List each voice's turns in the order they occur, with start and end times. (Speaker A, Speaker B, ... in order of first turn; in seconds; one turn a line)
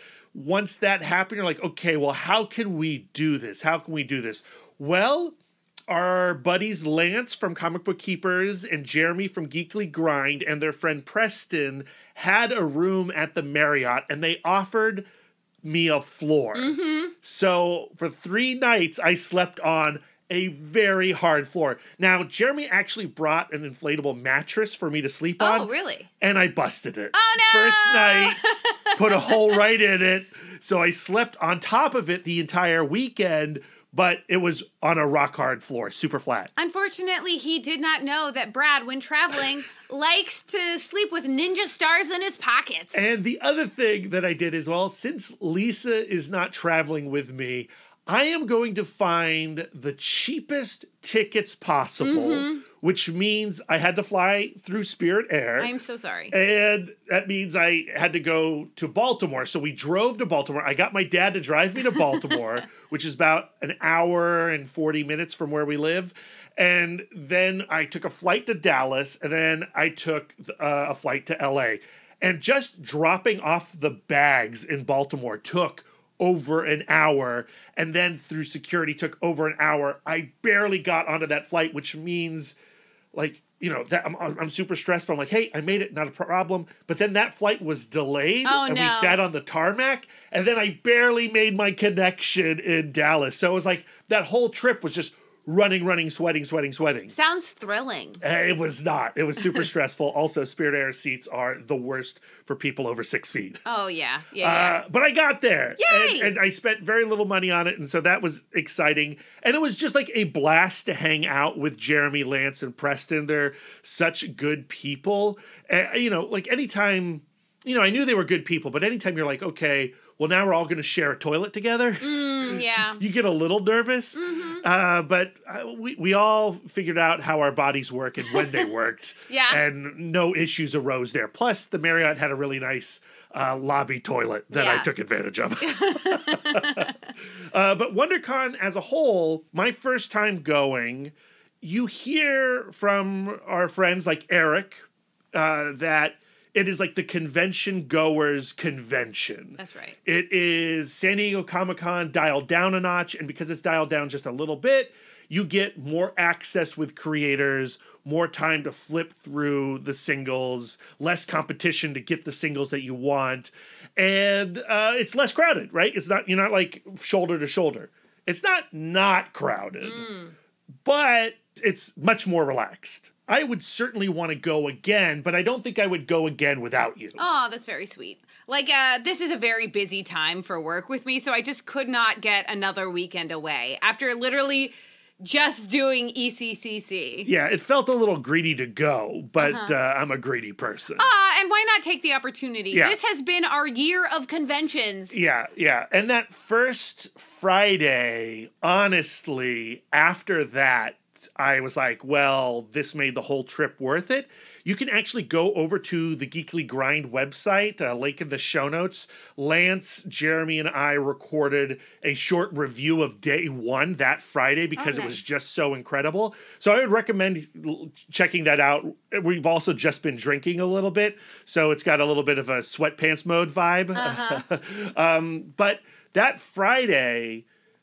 Speaker A: 0.3-5.4
Speaker A: 5.9-15.1
Speaker A: 15.6-28.4
Speaker B: 16.6-17.1
Speaker B: 25.4-26.1
Speaker B: 27.1-29.6
Speaker A: 29.0-36.5
Speaker B: 36.6-43.1
Speaker A: 42.9-55.7
Speaker B: 52.0-52.6
Speaker B: 55.6-56.4
Speaker A: 56.3-82.5
Speaker B: 62.2-62.4
Speaker A: 83.1-97.1
Speaker B: 88.4-89.2
Speaker B: 97.1-98.2
Speaker A: 98.2-103.6
Speaker B: 103.7-104.8
Speaker A: 104.4-170.1
Speaker B: 105.8-106.3
Speaker B: 122.0-123.0
Speaker B: 124.2-124.7
Speaker B: 129.3-129.6
Speaker B: 134.5-134.9
Speaker B: 135.6-137.1
Speaker B: 149.6-150.0
Speaker B: 169.8-170.3
Speaker A: 170.8-177.2
Speaker B: 177.2-187.3
Speaker A: 187.2-191.1
Speaker B: 189.4-189.7
Speaker B: 191.0-195.2
Speaker A: 192.7-193.0
Speaker A: 195.1-227.4
Speaker B: 214.8-215.2
Speaker B: 223.9-224.4